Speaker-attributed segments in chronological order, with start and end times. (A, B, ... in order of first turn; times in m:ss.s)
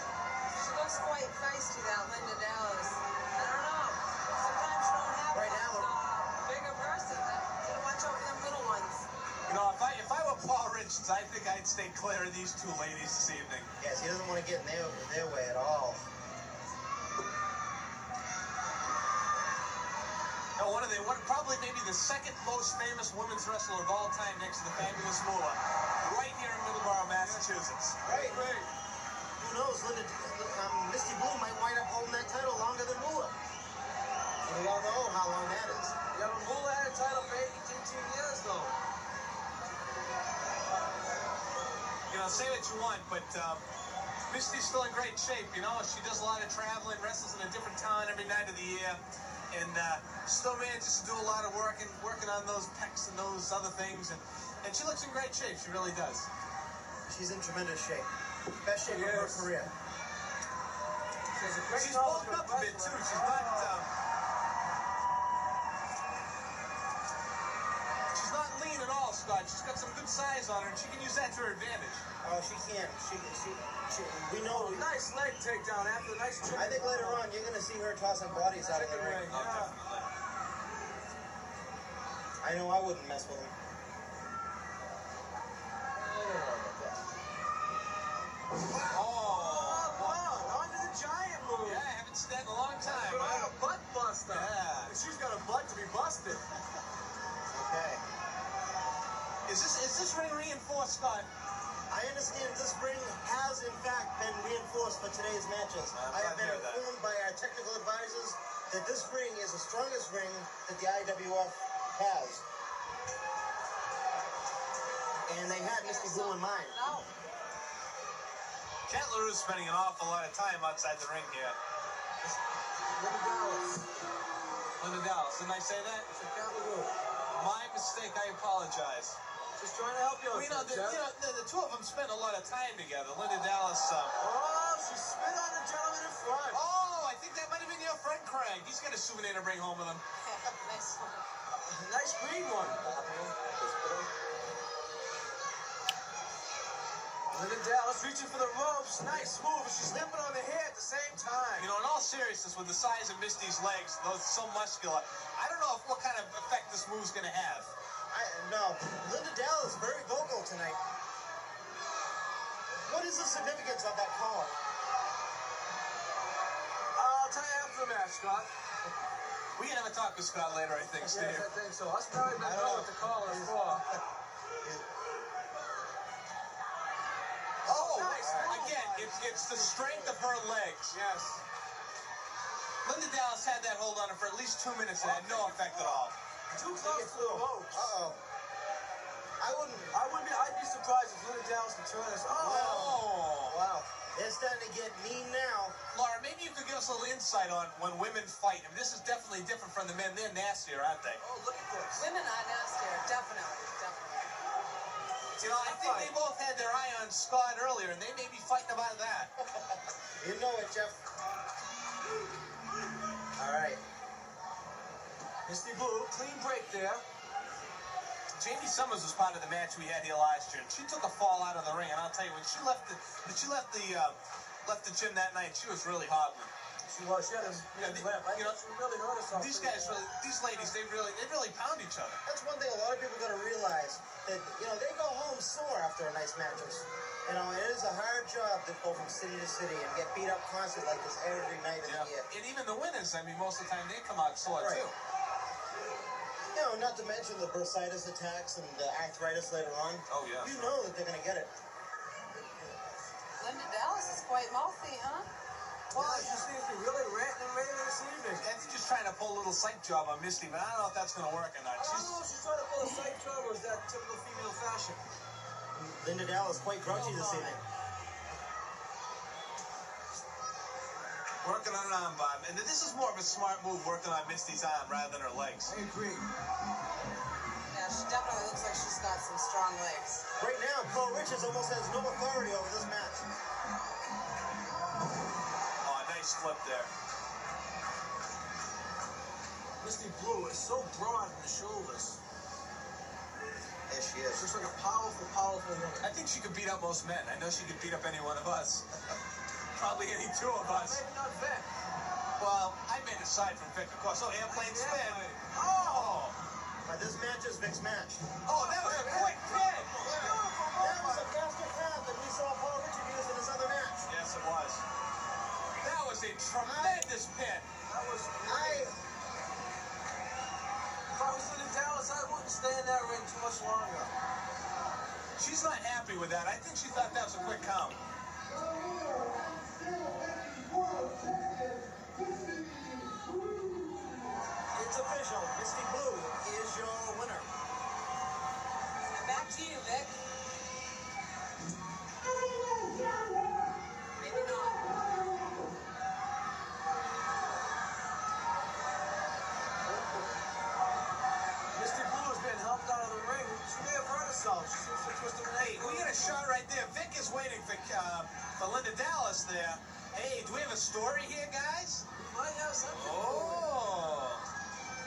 0:00.5-0:09.0 A
0:05.3-0:05.9 B
0:09.4-0:13.7 C
0:13.8-0:16.0 B
0:20.6-0:28.0 C
0:27.1-0:28.7 D
0:28.0-0:28.5 B
0:29.4-0:33.3 B
0:34.4-0:36.0 B
0:36.1-0:38.7 D
0:42.1-0:43.6 C
0:44.3-0:49.0 C
0:49.5-0:56.3 C
0:57.1-0:58.1 B
0:58.6-0:59.7 B
0:58.8-0:59.5 D
1:01.3-1:03.8 D
1:01.7-1:03.9 C
1:08.1-1:12.0 C
1:12.2-1:14.8 B
1:14.4-1:17.2 D
1:16.5-1:19.4 B
1:18.5-1:19.7 D
1:19.3-1:20.1 C
1:22.4-1:23.5 B
1:26.0-1:26.9 D
1:28.8-1:30.2 C
1:28.9-1:31.9 D
1:31.6-1:33.5 C
1:32.8-1:36.4 D
1:34.3-1:35.0 C
1:37.5-1:38.0 B
1:39.4-1:41.3 C
1:41.9-1:52.4 B
1:45.9-1:46.8 C
1:55.2-1:56.8 B
1:55.4-1:57.1 A
1:58.9-2:01.6 C
2:02.9-2:03.8 D
2:04.8-2:06.1 C
2:06.1-2:06.9 D
2:07.3-2:09.2 C
2:09.6-2:11.0 D
2:10.3-2:14.1 C
2:14.2-2:16.6 D
2:16.5-2:20.0 C
2:20.2-2:21.2 A
2:21.5-2:22.9 D
2:22.8-2:24.0 B
2:27.3-2:31.7 D
2:31.6-2:37.7 C
2:38.1-2:40.8 B
2:42.8-2:44.5 B
2:46.9-2:48.5 D
2:49.6-2:51.5 C
2:51.1-2:53.8 D
2:52.4-2:53.8 B
2:57.6-3:00.3 D
2:57.6-3:01.0 C
2:57.9-2:58.6 B
3:00.9-3:01.4 D
3:02.8-3:06.1 C
3:05.0-3:07.9 D
3:06.8-3:08.2 B
3:09.4-3:09.9 B
3:09.9-3:13.0 D
3:12.3-3:15.7 B
3:12.5-3:13.6 C
3:15.9-3:21.2 C
3:21.2-3:22.1 D
3:22.0-3:24.3 A
3:25.4-3:29.3 C
3:25.4-3:26.1 D
3:30.2-3:31.0 B
3:33.4-3:33.8 B
3:35.4-3:37.0 D
3:38.4-3:46.5 C
3:46.9-3:50.1 D
3:47.7-3:48.6 C
3:49.3-3:52.2 C
3:52.2-4:02.3 B
4:01.8-4:04.9 C
4:04.4-4:04.9 B
4:06.5-4:11.5 B
4:10.1-4:10.7 C
4:13.4-4:15.3 A
4:15.9-4:18.5 D
4:15.9-4:16.3 B
4:18.4-4:22.2 C
4:21.7-4:25.0 D
4:25.7-4:27.6 B
4:26.8-4:27.6 D
4:31.4-4:35.7 C
4:35.6-4:36.3 D
4:37.7-4:40.2 A
4:40.4-4:43.2 B
4:45.8-4:46.9 C
4:49.8-4:52.2 D
4:53.9-4:54.5 B
4:54.3-4:56.1 D
4:56.0-4:58.9 C
4:59.7-5:01.0 C
5:00.6-5:01.7 D
5:02.4-5:06.4 C
5:04.4-5:06.3 D
5:06.8-5:09.4 B
5:08.4-5:10.1 C
5:08.5-5:11.3 D
5:10.1-5:14.0 B
5:14.0-5:14.8 C
5:15.8-5:17.7 C
5:16.6-5:17.1 B
5:17.8-5:18.9 D
5:18.4-5:19.0 B
5:21.1-5:24.1 D
5:25.4-5:28.0 C
5:28.8-5:33.8 D
5:34.7-5:37.5 B
5:39.0-5:40.1 A
5:44.2-5:44.9 A
5:51.7-5:56.4 D
5:55.5-6:02.0 C
6:02.2-6:03.8 D
6:02.9-6:04.4 C